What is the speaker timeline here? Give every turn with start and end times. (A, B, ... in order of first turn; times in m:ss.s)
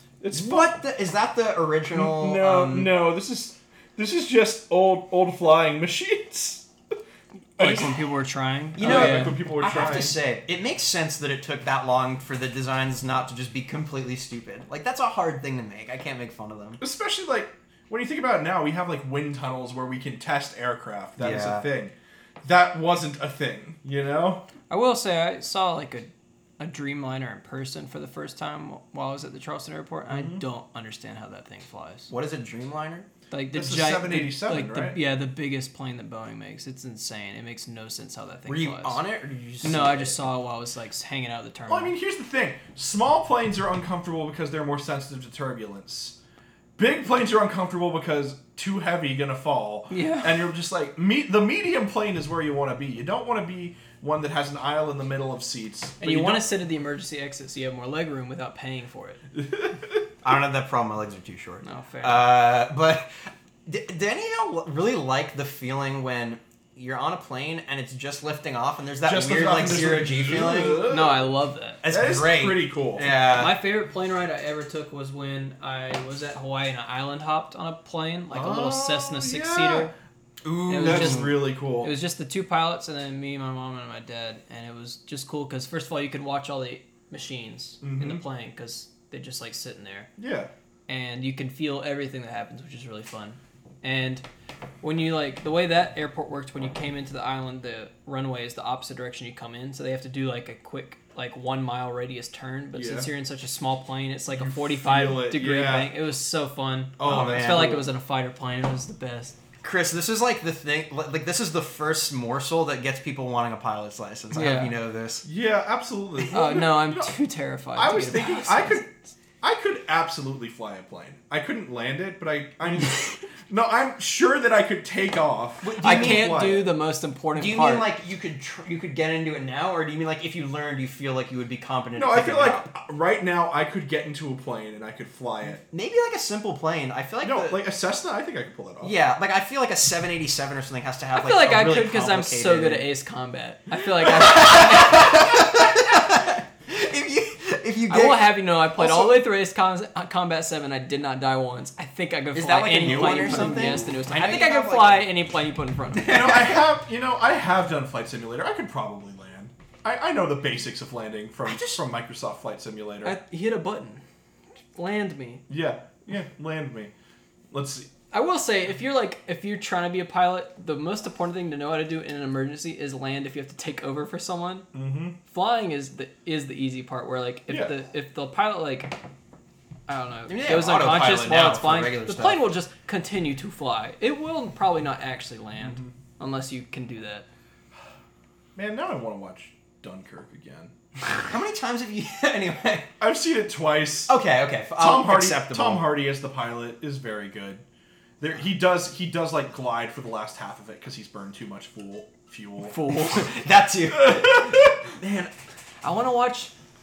0:00.2-0:00.8 A
0:00.3-0:02.9 B
0:01.9-0:06.7 A
0:07.6-0:08.0 A
0:07.6-0:09.8 C
0:08.8-0:16.8 B
0:08.8-0:10.2 A
0:16.8-0:24.4 A
0:21.2-0:21.6 B
0:24.7-0:32.1 C
0:30.1-0:30.4 A
0:32.1-0:33.1 B
0:33.3-0:39.0 C
0:33.5-0:35.0 A
0:38.5-0:40.2 B
0:39.6-0:41.9 C
0:41.7-0:46.2 A
0:46.8-0:56.5 A
0:49.9-0:50.5 C
0:56.0-0:59.2 C
0:59.4-0:59.8 A
1:00.2-1:10.9 B
1:01.6-1:02.3 C
1:09.0-1:11.3 A
1:10.8-1:11.8 C
1:11.8-1:13.6 B
1:11.8-1:13.1 A
1:13.3-1:19.9 C
1:18.3-1:19.9 A
1:20.4-1:21.4 B
1:20.7-1:30.1 C
1:20.8-1:21.9 A
1:27.8-1:28.2 A
1:30.2-1:30.5 A
1:30.9-1:34.2 C
1:34.8-1:49.3 C
1:42.7-1:43.1 A
1:44.3-1:46.0 A
1:47.0-1:47.9 A
1:47.0-1:47.8 B
1:49.6-1:55.2 B
1:54.3-1:54.7 C
1:55.2-1:57.2 A
1:56.3-1:58.9 C
1:57.7-1:58.9 A
1:59.4-2:06.7 A
2:05.6-2:06.6 B
2:05.8-2:07.8 C
2:07.4-2:12.6 B
2:12.0-2:15.6 A
2:15.7-2:17.6 B
2:17.2-2:19.0 A
2:18.8-2:22.9 B
2:21.1-2:25.3 C
2:24.1-2:28.4 B
2:27.9-2:36.3 C
2:28.8-2:29.2 A
2:32.3-2:35.1 B
2:33.0-2:33.8 A
2:36.0-2:36.6 B
2:36.0-2:43.2 A
2:41.4-2:41.8 B
2:43.0-2:44.0 C
2:44.7-2:45.4 C
2:45.5-2:46.9 A
2:47.5-2:47.9 A
2:48.1-2:54.7 C
2:54.7-2:55.2 A
2:55.2-2:59.0 C
2:57.5-2:57.7 A
2:59.9-3:07.2 C
3:00.3-3:02.4 B
3:05.6-3:05.9 A
3:08.5-3:10.7 A
3:11.2-3:12.9 B
3:13.0-3:14.1 A
3:14.1-3:15.9 B
3:14.8-3:17.6 A
3:18.2-3:22.9 A
3:22.6-3:23.2 C
3:22.9-3:25.3 B
3:24.0-3:24.5 A
3:25.8-3:26.5 C